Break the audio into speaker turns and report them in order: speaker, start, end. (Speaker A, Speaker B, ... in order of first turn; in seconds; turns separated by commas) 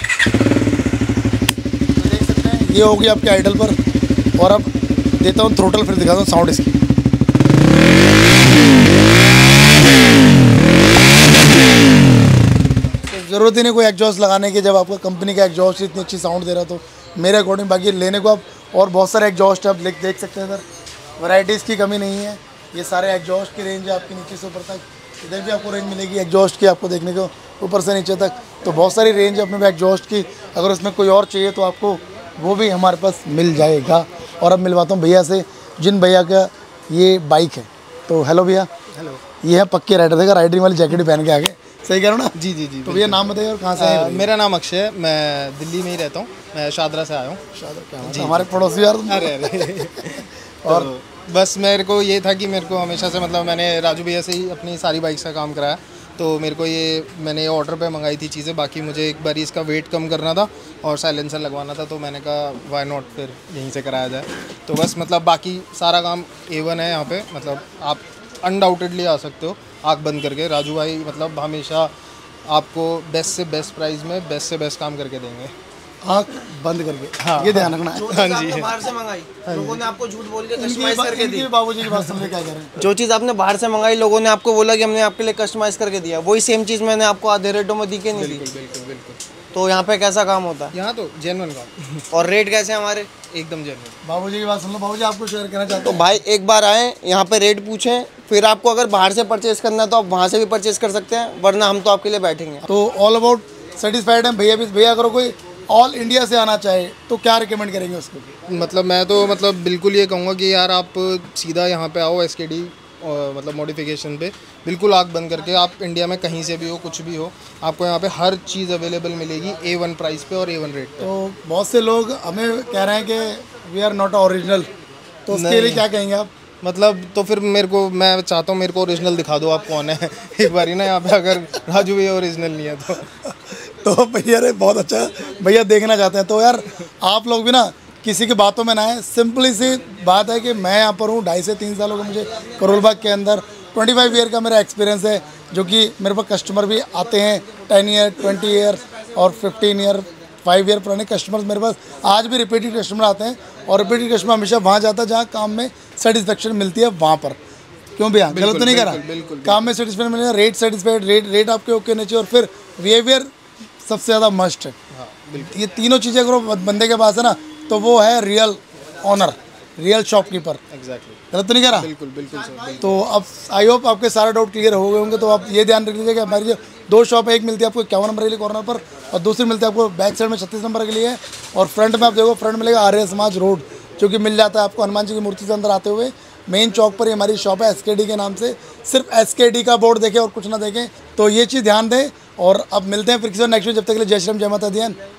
Speaker A: 2.0-3.8, Speaker A: 4.4-6.7, Speaker A: 13.1-20.6, Speaker A: 21.2-38.7, Speaker B: 38.9-39.2, Speaker A: 39.4-44.3, Speaker B: 42.4-43.2, Speaker B: 43.8-47.4, Speaker A: 47.5-49.8, Speaker B: 48.0-71.9, Speaker A: 50.6-50.9, Speaker B: 72.5-75.5, Speaker A: 76.0-78.2, Speaker B: 77.2-78.9, Speaker C: 78.0-81.5, Speaker B: 79.5-79.8, Speaker A: 80.6-82.8, Speaker C: 82.8-88.4, Speaker B: 88.1-89.2, Speaker C: 89.5-90.7, Speaker B: 90.7-92.2, Speaker C: 92.1-93.2, Speaker B: 93.3-94.0, Speaker A: 94.0-96.2, Speaker C: 95.8-102.6, Speaker A: 102.7-108.3, Speaker B: 108.5-121.1, Speaker A: 121.0-124.7, Speaker A: 125.3-126.3, Speaker B: 125.3-125.9, Speaker B: 126.6-133.1, Speaker A: 133.3-157.4, Speaker A: 158.0-163.3, Speaker B: 158.3-159.8, Speaker A: 163.8-164.7, Speaker B: 164.9-165.6, Speaker A: 165.4-170.6, Speaker B: 170.7-173.0, Speaker A: 171.3-171.9, Speaker A: 172.8-195.0